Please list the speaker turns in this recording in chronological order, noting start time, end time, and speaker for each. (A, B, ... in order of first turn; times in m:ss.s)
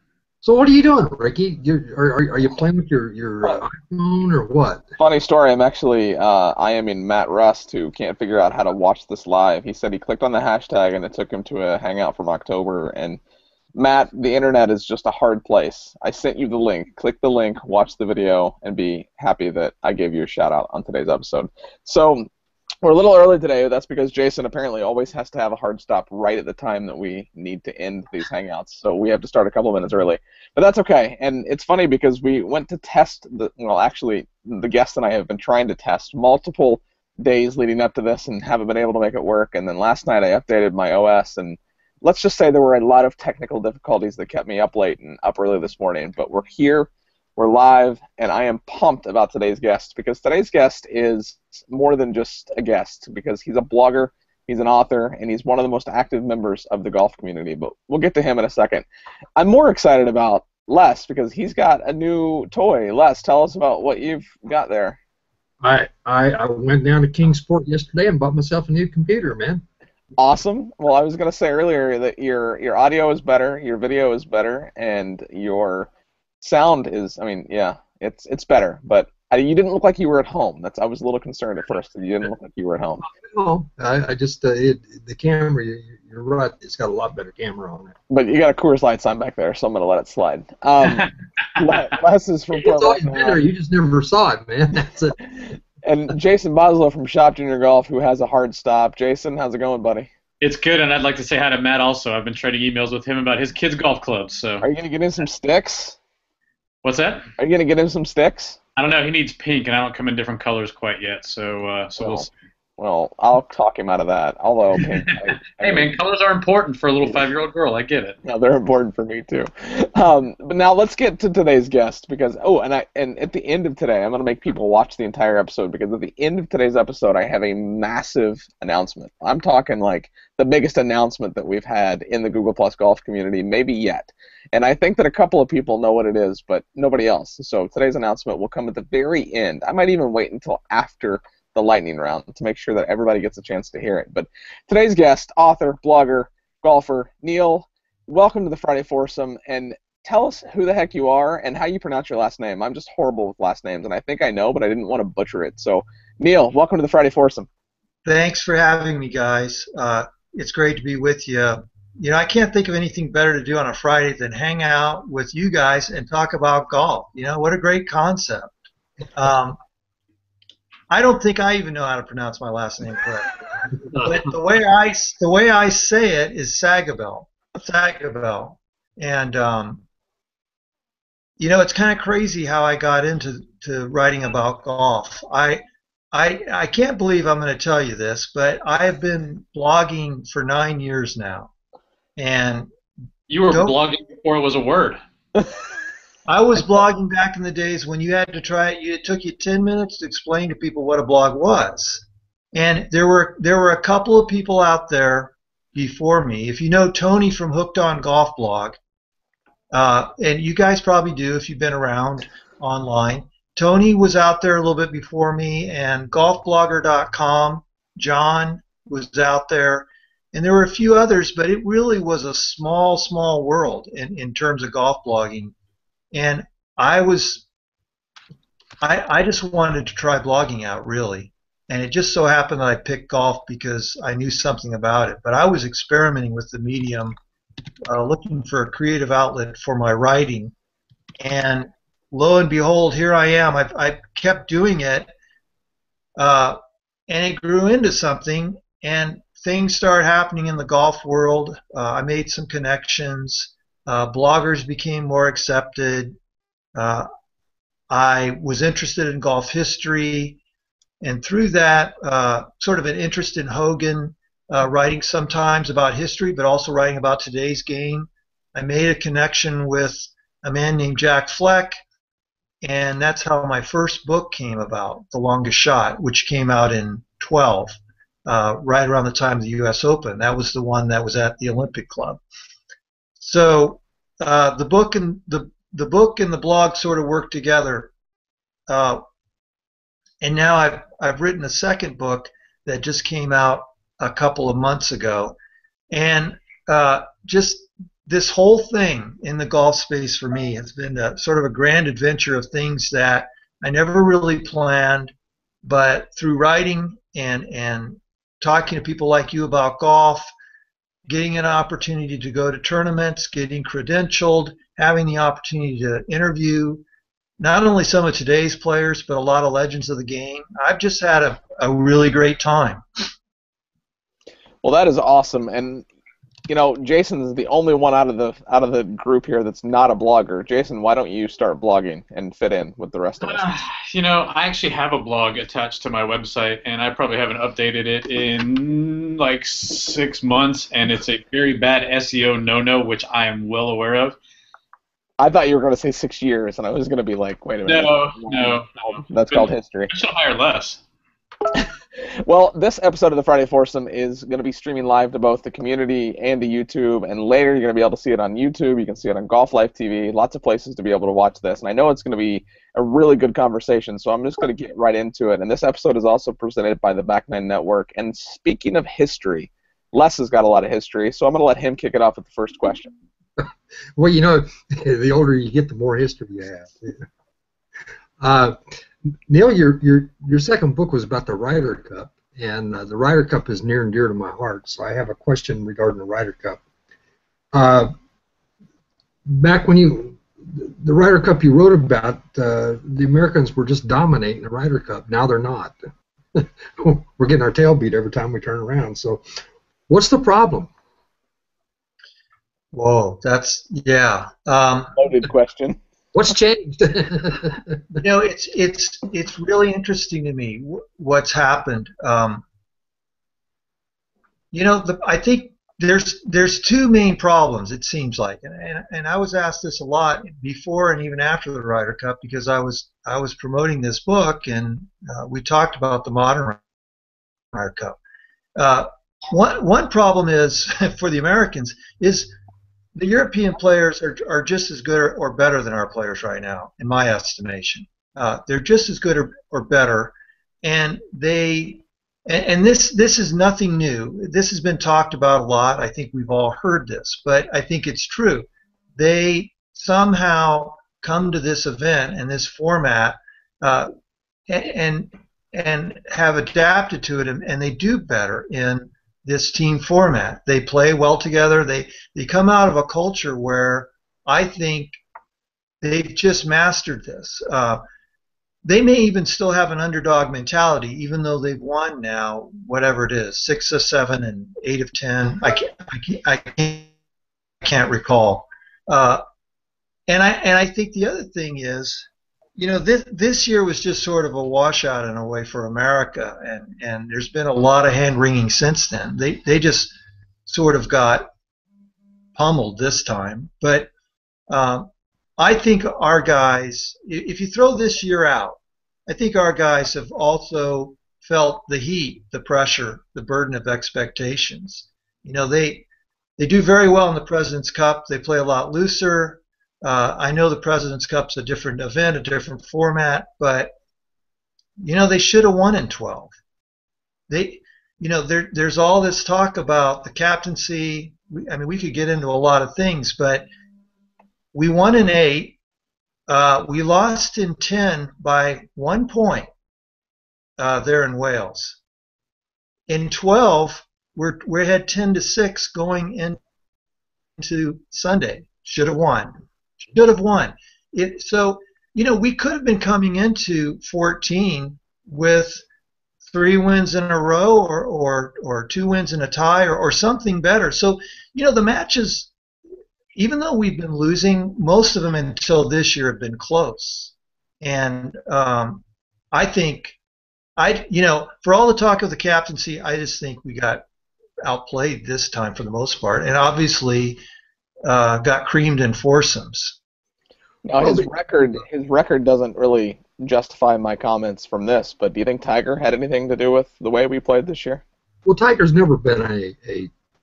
0:00.4-0:04.8 A
0:05.0-0:13.2 B
0:13.8-0:22.3 B
0:22.8-0:58.8 B
0:59.4-1:05.0 B
1:05.6-1:09.6 A
1:10.2-1:15.9 B
1:16.4-1:23.1 B
1:23.1-1:27.9 A
1:28.1-1:33.4 B
1:30.8-1:31.1 C
1:32.6-1:35.2 A
1:35.8-1:40.1 B
1:40.4-1:44.7 C
1:44.6-1:46.0 B
1:46.8-1:47.3 C
1:47.4-1:48.6 B
1:48.8-1:52.3 C
1:52.0-1:52.3 B
1:52.8-1:55.9 B
1:55.6-1:58.2 C
1:58.2-2:37.5 B
2:38.1-2:48.5 D
2:49.2-2:49.6 D
2:50.9-2:53.3 D
2:53.9-2:59.8 D
3:01.4-3:11.5 D
3:12.2-3:12.7 D
3:13.3-3:15.0 C
3:13.5-3:13.8 D
3:16.3-3:28.8 D
3:29.7-3:45.5 D
3:46.1-3:47.4 D
3:48.8-3:57.2 D
3:57.9-4:00.5 D
4:01.2-4:05.1 D
4:06.2-4:16.2 D
4:16.8-4:17.1 D
4:17.9-4:20.4 D
4:21.0-4:31.8 D
4:32.6-4:42.2 D
4:43.2-4:47.9 D
4:48.7-4:49.0 D
4:50.2-4:55.4 D
4:55.9-5:05.1 D
5:05.6-5:10.3 D
5:11.1-5:16.8 D
5:17.4-5:22.8 D
5:24.6-5:25.8 B
5:26.5-5:33.6 B
5:33.2-5:44.2 C
5:45.2-5:49.9 B
5:47.6-5:50.8 C
5:51.5-6:12.9 B
6:13.4-6:17.1 A
6:18.2-6:18.8 A
6:19.3-6:26.6 A
6:27.5-6:27.9 A
6:29.3-6:35.8 A
6:36.4-6:39.2 A
6:39.9-6:40.7 A
6:42.7-6:45.0 D
6:45.0-6:45.8 B
6:46.2-6:48.0 A
6:48.0-6:52.4 D
6:54.5-7:06.6 D
7:07.5-7:08.0 D
7:08.6-7:12.3 D
7:13.0-7:33.9 D
7:34.5-7:45.0 D
7:45.8-7:47.8 D
7:48.6-7:56.9 D
7:57.6-7:59.2 D
8:00.1-8:09.9 D
8:10.5-8:11.3 D
8:12.4-8:13.9 D
8:14.5-8:25.8 D
8:26.4-8:33.7 D
8:34.8-8:36.3 D
8:37.3-8:43.4 D
8:44.5-8:45.6 D
8:46.3-8:49.5 D
8:50.6-8:51.8 D
8:52.9-8:56.4 D
8:57.4-9:05.6 D
9:06.3-9:12.3 D
9:13.2-9:18.8 D
9:19.3-9:20.0 D
9:20.6-9:23.8 D
9:24.4-9:27.2 D
9:27.9-9:29.8 D
9:30.6-9:37.8 B
9:30.8-9:31.1 A
9:38.2-9:39.9 A